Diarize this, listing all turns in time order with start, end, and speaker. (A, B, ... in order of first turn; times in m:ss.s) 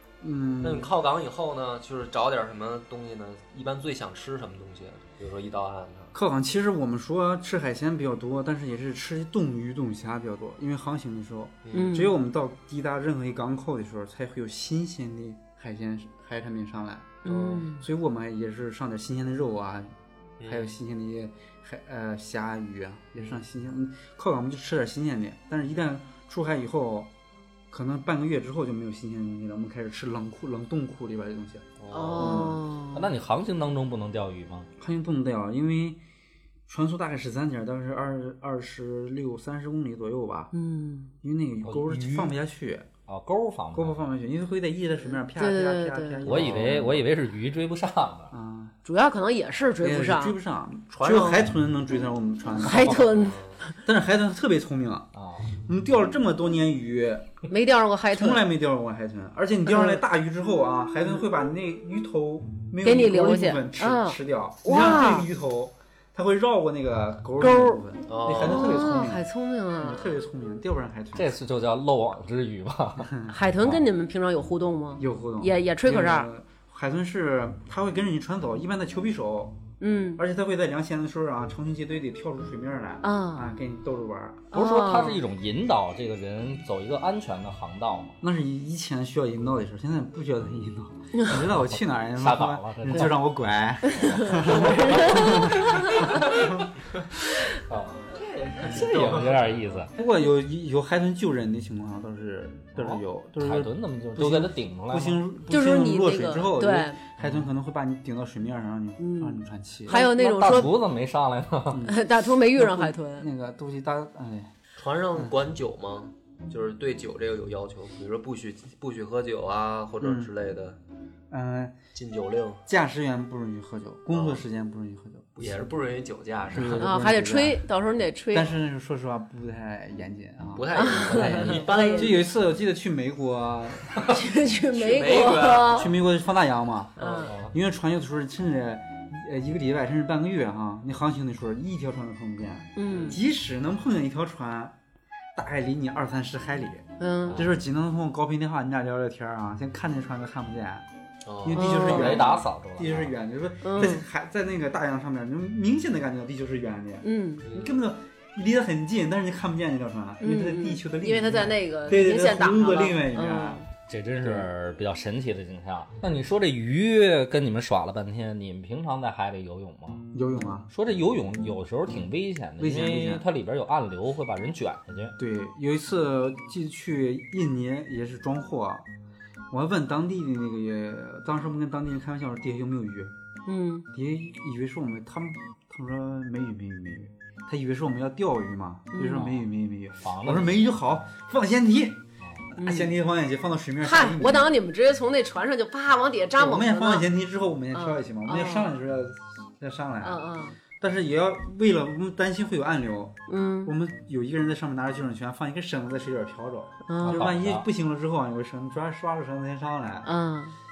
0:00.2-0:00.9 A
0:00.6-0:06.1 B
0:06.1-0:27.1 A
0:11.6-0:12.0 B
0:11.7-0:12.1 C
0:17.2-0:17.8 C
0:20.4-0:20.7 B
0:27.7-0:32.6 A
0:31.8-0:32.5 B
0:31.9-0:33.1 C
0:32.9-0:34.7 D
0:34.8-0:36.0 A
0:36.7-0:40.5 A
0:40.5-0:41.1 C
0:41.2-0:42.9 A
0:41.6-0:42.4 D
0:43.1-0:44.0 D
0:43.7-0:47.1 A
0:45.4-0:46.5 C
0:46.2-0:48.3 D
0:48.3-0:48.8 A
0:48.8-0:50.4 C
0:49.8-0:53.2 A
0:51.0-0:51.5 B
0:52.6-0:53.8 C
0:53.2-0:53.6 B
0:53.8-0:57.4 A
0:55.2-0:55.5 D
0:57.5-0:58.5 C
0:58.1-1:09.2 A
0:59.7-1:00.0 C
1:02.8-1:05.3 C
1:07.4-1:07.8 C
1:08.1-1:08.8 B
1:08.4-1:10.2 C
1:09.8-1:11.4 A
1:11.2-1:13.1 D
1:13.0-1:13.8 A
1:13.3-1:16.3 C
1:15.0-1:19.6 A
1:19.8-1:20.2 C
1:20.2-1:24.5 A
1:23.0-1:23.5 C
1:24.5-1:25.2 C
1:24.5-1:28.2 D
1:28.2-1:36.6 A
1:31.5-1:33.2 D
1:33.9-1:36.3 C
1:34.0-1:36.6 D
1:37.7-1:38.0 D
1:38.0-1:39.6 B
1:38.6-1:39.9 D
1:38.6-1:39.1 A
1:39.9-1:50.0 A
1:42.8-1:45.2 D
1:45.5-1:47.0 C
1:47.2-1:47.5 D
1:49.0-1:50.7 C
1:49.9-1:51.9 D
1:51.7-1:54.5 A
1:51.8-1:53.3 C
1:54.8-2:00.8 B
2:00.0-2:00.3 A
2:01.3-2:01.8 A
2:02.0-2:02.6 B
2:02.7-2:05.7 A
2:04.1-2:04.4 B
2:05.4-2:06.9 B
2:06.5-2:07.6 A
2:06.8-2:08.5 C
2:08.3-2:14.1 A
2:10.5-2:12.3 B
2:10.8-2:12.3 C
2:11.2-2:11.6 D
2:14.1-2:15.9 C
2:14.7-2:15.9 B
2:15.2-2:24.8 A
2:17.0-2:17.3 C
2:17.0-2:17.3 B
2:17.3-2:17.5 D
2:22.8-2:23.2 C
2:22.9-2:23.2 B
2:25.4-2:30.9 A
2:27.0-2:27.4 C
2:31.2-2:31.7 B
2:31.4-2:43.6 A
2:31.6-2:32.3 C
2:31.7-2:33.1 D
2:33.6-2:34.0 C
2:37.0-2:37.4 C
2:37.4-2:37.8 B
2:40.2-2:43.7 C
2:43.9-2:50.0 D
2:44.2-2:44.5 A
2:50.1-2:50.7 A
2:50.7-2:55.2 D
2:52.6-2:53.2 A
2:55.2-2:58.9 A
2:59.5-3:03.1 A
3:03.5-3:03.9 C
3:03.9-3:12.0 A
3:08.9-3:09.4 C
3:10.0-3:10.6 D
3:12.5-3:14.5 A
3:12.6-3:12.9 C
3:13.8-3:17.1 C
3:16.4-3:20.2 A
3:17.7-3:18.7 C
3:20.0-3:20.6 C
3:20.8-3:30.1 A
3:23.3-3:23.7 C
3:26.9-3:27.3 C
3:27.0-3:27.7 D
3:30.0-3:30.6 C